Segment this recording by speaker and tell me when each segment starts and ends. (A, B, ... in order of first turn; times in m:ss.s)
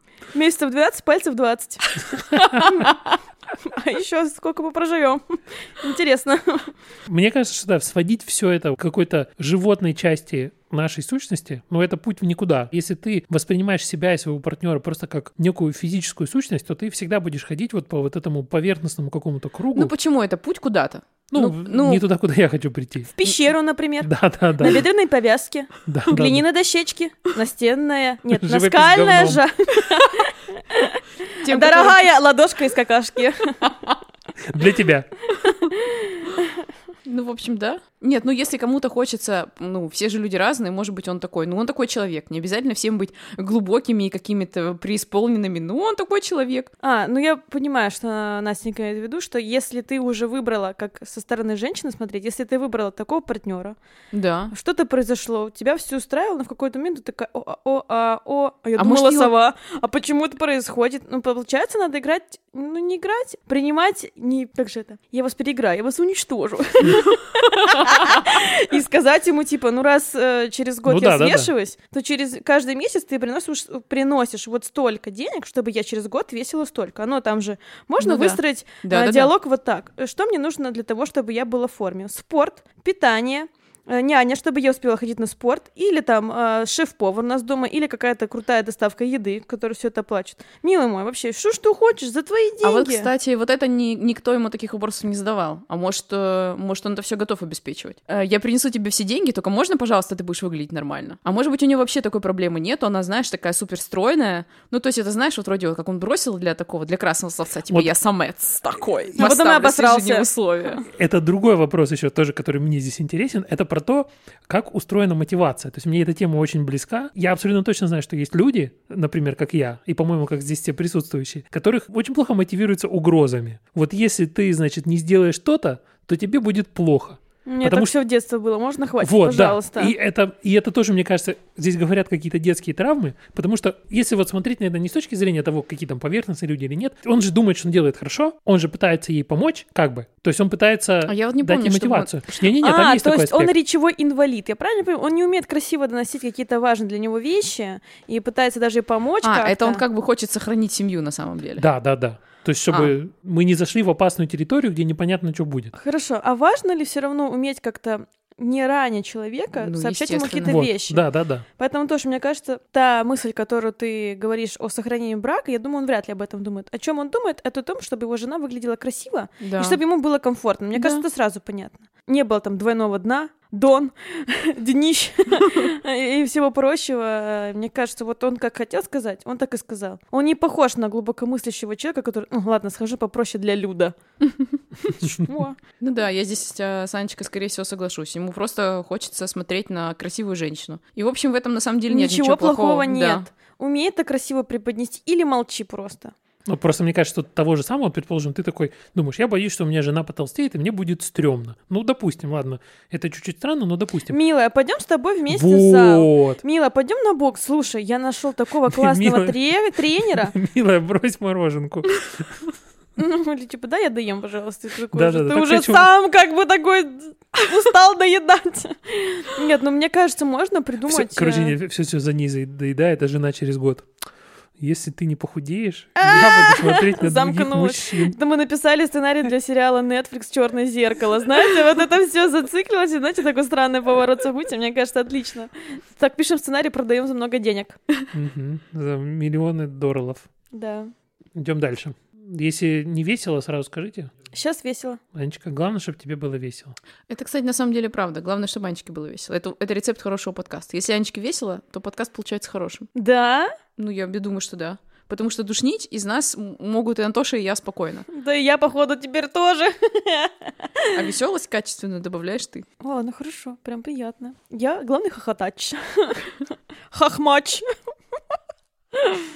0:00.3-0:02.9 A
0:03.6-0:06.7 A
0:07.1-0:19.9 B
0:19.8-0:22.0 C
0:21.3-0:23.1 B
0:23.2-0:33.7 A
0:24.0-0:24.9 B
0:25.9-0:26.4 B
0:28.3-0:29.4 B
0:31.4-0:32.1 C
0:33.7-0:33.9 C
0:34.4-0:35.1 B
0:35.5-0:36.4 A
0:37.0-0:46.7 C
0:46.8-0:53.8 A
0:54.1-0:54.5 C
0:54.5-1:33.1 A
0:58.8-0:59.3 C
1:10.9-1:11.5 B
1:18.0-1:19.3 C
1:32.6-1:50.8 C
1:49.2-1:50.3 A
1:50.9-2:07.9 B
2:07.5-2:10.0 A
2:09.0-2:23.5 B
2:21.1-2:22.3 C
2:22.6-2:29.8 A
2:29.2-2:31.7 C
2:31.6-2:35.7 B
2:35.8-2:41.0 A
2:39.6-2:40.6 C
2:40.4-2:41.4 B
2:41.6-3:04.0 A
2:49.4-2:49.8 C
2:50.7-2:51.0 C
3:04.8-3:05.6 A
3:05.8-3:13.3 C
3:11.9-3:16.1 A
3:16.5-3:24.2 B
3:24.1-3:30.3 A
3:25.3-3:26.4 B
3:28.7-3:32.5 B
3:33.0-3:41.6 A
3:34.9-3:35.9 B
3:40.9-3:43.9 B
3:44.6-3:48.1 B
3:46.0-3:57.8 A
3:58.1-4:00.3 B
4:00.5-4:00.9 A
4:01.4-4:04.1 B
4:04.3-4:05.0 A
4:05.1-4:06.8 B
4:07.1-4:12.9 C
4:13.0-4:13.6 A
4:13.8-4:18.1 C
4:18.1-4:21.0 A
4:20.9-4:22.7 C
4:22.8-4:26.3 A
4:26.9-4:27.6 A